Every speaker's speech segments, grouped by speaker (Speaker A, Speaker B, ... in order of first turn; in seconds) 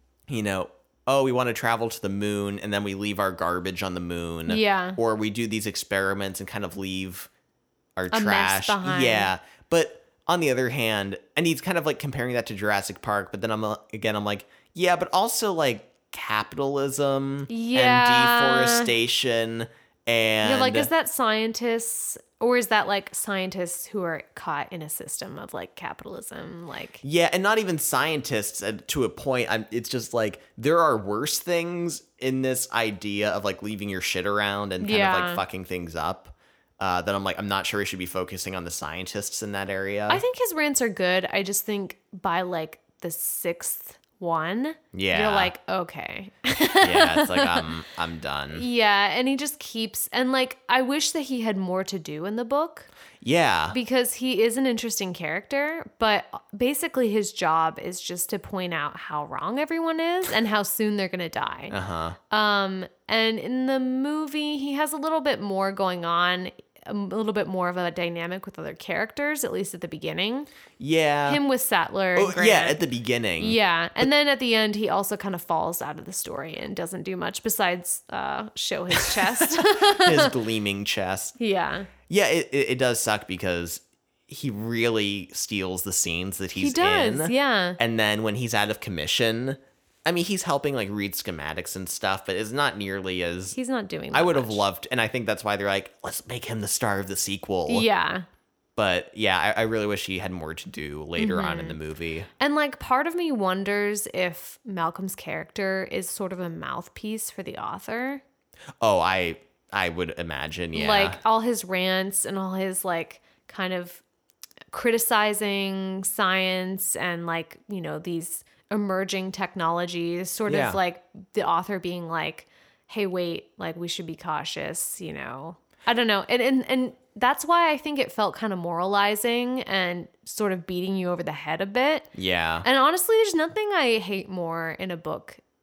Speaker A: 0.3-7.3, 8.0-20.9, 27.0-40.2, 44.9-45.5, 46.8-48.6, 53.2-53.8, 61.7-62.2, 70.8-71.4, 72.2-73.6, 78.9-81.4, 82.1-93.6, 94.1-97.9, 98.8-102.3, 108.8-111.2, 120.5-120.8, 132.1-132.7
Speaker B: 4.5-5.0, 8.1-9.3, 17.5-18.9, 20.4-27.0, 34.8-35.4, 40.1-47.7, 48.5-52.9, 53.7-61.7, 62.3-70.5, 71.2-72.8, 73.4-80.3, 81.4-81.9, 86.6-87.8, 93.5-94.6, 97.7-98.2, 101.2-101.8, 102.4-108.2, 110.7-114.0, 114.7-132.1, 132.6-135.4